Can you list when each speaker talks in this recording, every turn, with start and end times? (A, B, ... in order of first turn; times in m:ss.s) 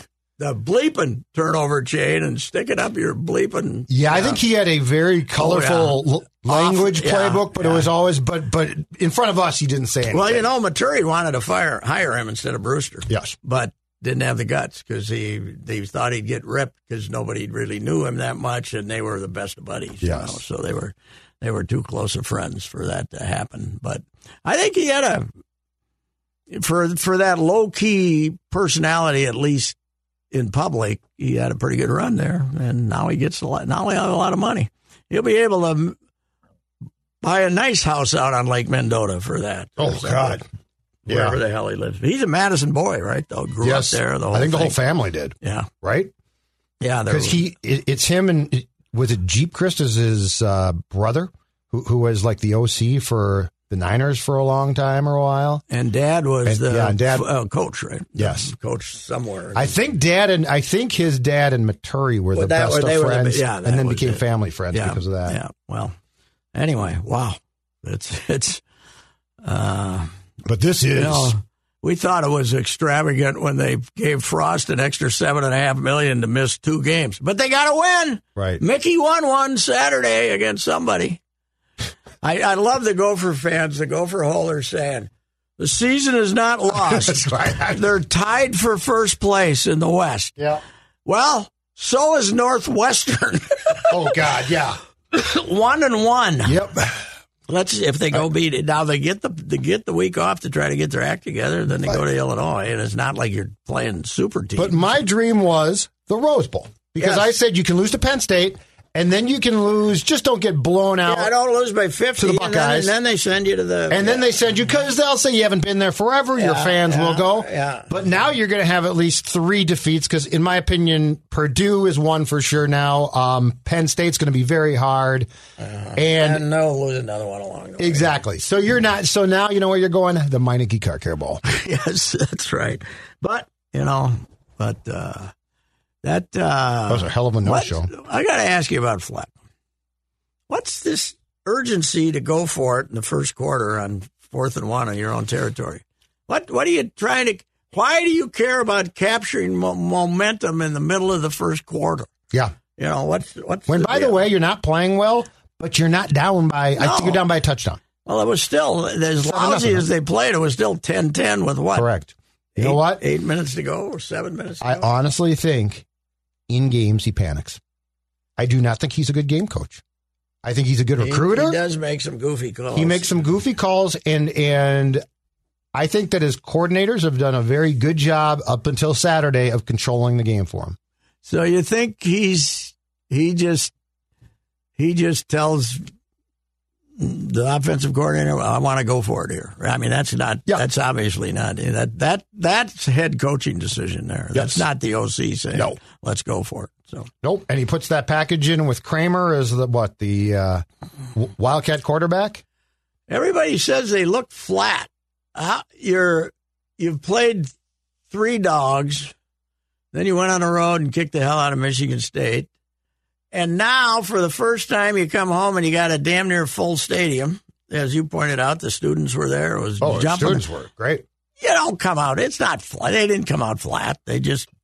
0:00.4-0:04.4 A
0:03.9-0:10.5 B
0:05.4-0:07.9 A
0:10.1-0:25.3 A
0:13.1-0:13.4 B
0:20.0-0:20.4 B
0:26.5-0:29.8 A
0:30.3-0:36.0 A
0:37.2-0:40.4 A
0:39.8-0:40.4 B
0:41.1-0:44.8 A
0:41.1-0:41.4 B
0:43.6-0:46.1 B
0:45.4-0:45.7 A
0:46.8-0:47.4 A
0:47.1-0:55.6 B
0:55.7-0:59.8 A
0:56.4-0:57.3 B
0:58.2-0:58.5 B
0:59.6-1:05.4 B
1:02.3-1:06.0 A
1:06.5-1:08.6 A
1:09.4-1:10.1 A
1:10.4-1:11.3 B
1:11.0-1:21.2 A
1:18.4-1:18.6 B
1:22.2-1:30.4 A
1:26.8-1:27.9 B
1:31.1-1:34.2 A
1:33.9-1:34.8 B
1:35.1-1:36.6 A
1:36.4-1:36.9 B
1:37.5-1:44.8 A
1:44.6-1:51.3 B
1:47.0-1:47.3 A
1:51.1-1:54.4 A
1:52.2-1:52.9 B
1:53.9-2:05.3 B
1:56.4-1:58.0 A
2:05.6-2:08.1 A
2:06.0-2:06.4 B
2:07.8-2:11.4 B
2:11.4-2:15.3 A
2:16.0-2:19.3 A
2:16.9-2:17.9 B
2:20.5-2:32.1 A
2:32.8-2:34.2 A
2:33.7-2:37.8 B
2:36.8-2:37.2 A
2:38.0-2:41.9 A
2:39.2-2:39.9 B
2:41.7-2:43.0 B
2:42.6-2:44.9 A
2:44.6-2:45.8 B
2:46.5-2:47.6 B
2:48.4-2:49.8 B
2:50.4-2:51.6 B
2:51.0-2:53.2 A
2:52.7-2:55.0 B
2:55.7-3:00.8 B
3:01.2-3:03.7 A
3:04.8-3:05.8 A
3:07.0-3:17.1 A
3:14.3-3:14.6 B
3:17.2-3:20.6 B
3:21.2-3:22.4 B
3:23.1-3:27.5 A
3:28.1-3:29.1 A
3:29.9-3:32.5 A
3:33.3-3:40.4 A
3:39.8-3:41.0 B
3:41.4-3:44.5 A